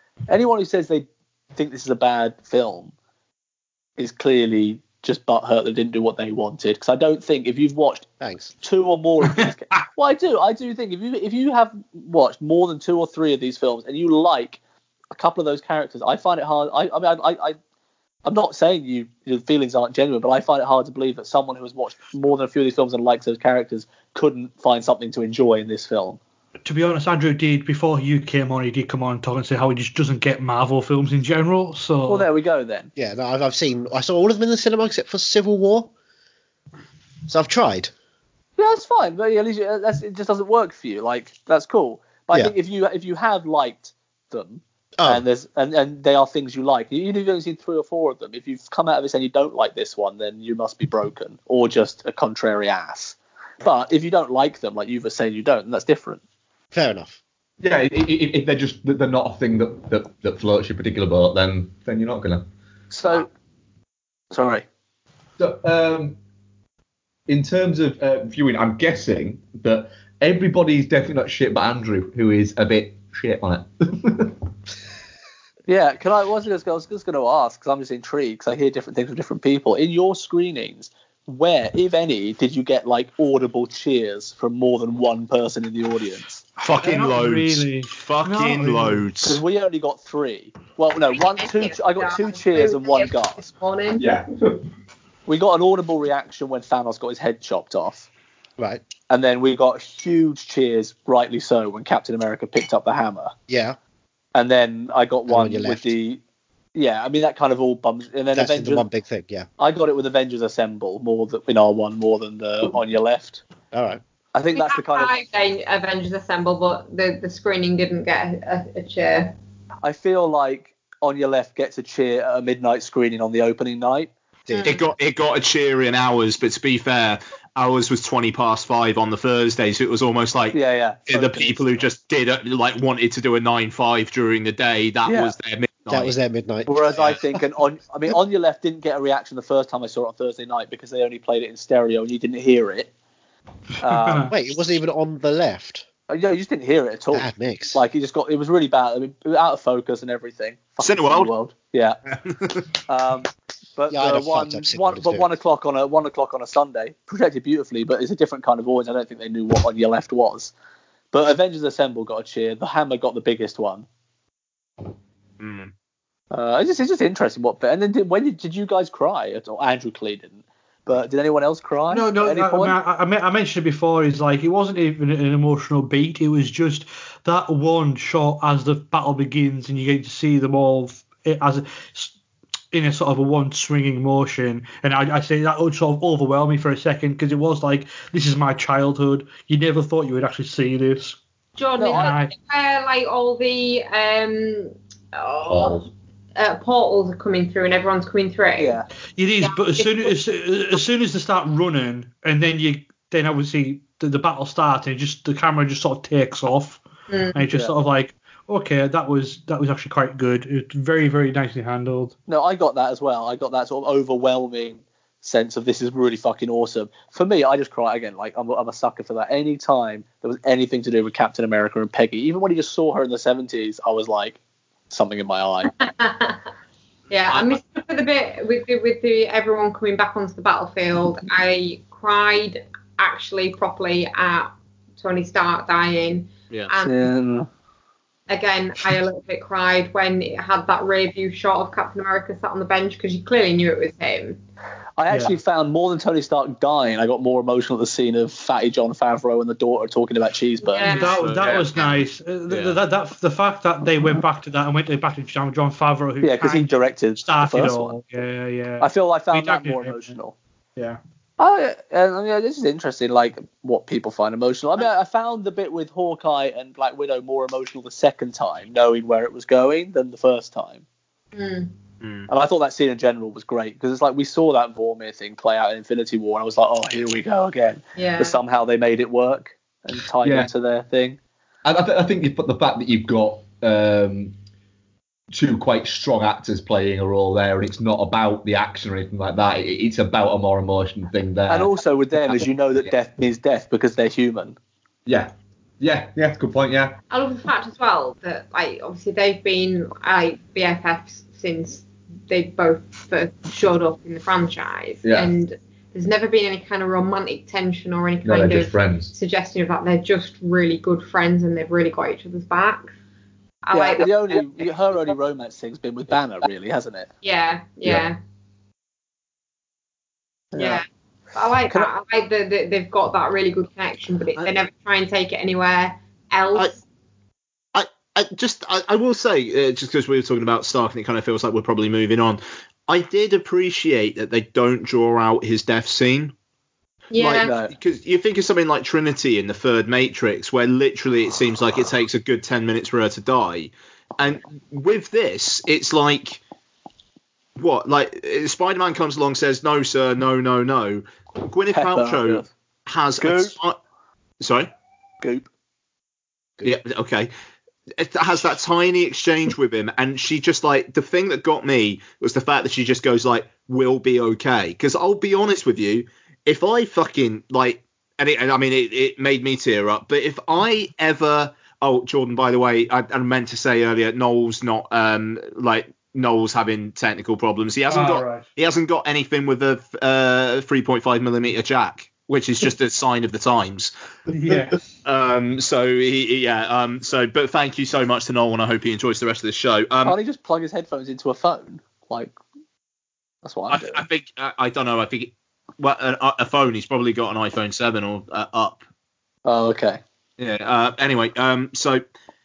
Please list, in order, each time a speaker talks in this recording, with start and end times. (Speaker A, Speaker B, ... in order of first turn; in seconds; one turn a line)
Speaker A: 0.3-2.9
Speaker A: 4.0-8.1
Speaker B: 8.2-8.5
Speaker A: 8.6-14.6
Speaker A: 15.1-17.6
Speaker A: 18.2-26.2
Speaker C: 26.6-32.3
Speaker A: 32.0-32.9
Speaker B: 33.0-35.9
Speaker B: 37.3-37.9
Speaker A: 38.6-56.2
Speaker B: 45.0-45.2
Speaker B: 56.7-57.2
Speaker D: 57.6-62.5
Speaker A: 62.9-63.3
Speaker A: 64.3-64.6
Speaker D: 65.4-66.2
Speaker D: 67.3-74.3
Speaker A: 75.7-86.4
Speaker E: 86.6-89.4
Speaker C: 86.6-89.1
Speaker A: 89.2-93.5
Speaker F: 91.3-94.0
Speaker D: 94.0-94.6
Speaker A: 95.2-98.1
Speaker B: 98.6-98.8
Speaker A: 99.1-103.3
Speaker B: 103.5-103.8
Speaker A: 104.3-106.2
Speaker B: 105.3-105.9
Speaker A: 106.7-108.8
Speaker B: 108.3-109.5
Speaker A: 109.6-113.4
Speaker B: 113.7-114.0
Speaker A: 114.3-115.2
Speaker F: 114.5-119.3
Speaker A: 119.8-124.1
Speaker B: 124.5-124.8
Speaker F: 124.5-124.9
Speaker E: 124.6-136.1
Speaker A: 130.5-131.8
Speaker A: 135.1-135.3
Speaker B: 135.9-137.1
Speaker A: 136.7-142.9
Speaker A: 143.8-144.3
Speaker C: 143.9-144.3
Speaker B: 144.3-145.8
Speaker A: 146.1-152.0
Speaker B: 147.1-147.8
Speaker E: 150.8-151.3
Speaker E: 152.1-152.7
Speaker A: 152.9-160.5
Speaker B: 153.9-155.3
Speaker A: 161.1-163.8
Speaker E: 165.4-165.7
Speaker A: 166.3-172.8
Speaker C: 171.9-182.1
Speaker C: 182.7-191.2
Speaker F: 191.6-195.8
Speaker A: 191.8-192.1
Speaker C: 191.9-192.3
Speaker D: 195.5-195.8
Speaker F: 196.3-198.8
Speaker A: 198.6-198.8
Speaker C: 199.2-206.8
Speaker F: 199.4-200.1
Speaker F: 207.1-207.4
Speaker C: 207.3-212.1
Speaker A: 212.3-224.4
Speaker A: 224.9-225.7
Speaker F: 225.8-226.4
Speaker F: 227.1-237.0
Speaker A: 236.8-237.5
Speaker F: 238.3-244.4
Speaker A: 245.0-251.0
Speaker F: 250.6-251.9
Speaker C: 250.8-260.1
Speaker E: 251.0-251.7
Speaker E: 252.5-252.8
Speaker A: 256.2-258.0
Speaker A: 258.8-260.3
Speaker A: 261.4-270.8
Speaker F: 271.3-271.7
Speaker E: 272.0-272.3
Speaker A: 272.3-281.2
Speaker F: 277.9-278.4
Speaker D: 280.2-280.5
Speaker D: 281.6-284.3
Speaker D: 285.3-291.7
Speaker A: 291.5-294.6
Speaker D: 292.2-292.9
Speaker D: 295.1-297.0
Speaker F: 297.1-312.9
Speaker D: 305.0-305.3
Speaker D: 308.2-309.1
Speaker F: 313.6-315.1
Speaker A: 313.7-317.1
Speaker F: 317.2-318.2
Speaker A: 320.5-320.8
Speaker F: 320.6-326.8
Speaker E: 327.7-336.3
Speaker F: 337.1-337.5
Speaker E: 337.2-346.4
Speaker A: 337.4-337.7
Speaker E: 347.6-353.8
Speaker A: 351.7-352.5
Speaker A: 353.2-353.6
Speaker E: 354.4-354.7
Speaker A: 355.2-355.5
Speaker E: 356.6-357.3
Speaker E: 358.0-383.9
Speaker C: 377.9-378.4
Speaker C: 384.3-384.8
Speaker E: 385.0-390.2
Speaker A: 390.0-392.3
Speaker A: 393.4-394.0
Speaker E: 393.7-398.8
Speaker A: 399.4-400.0
Speaker E: 400.4-402.0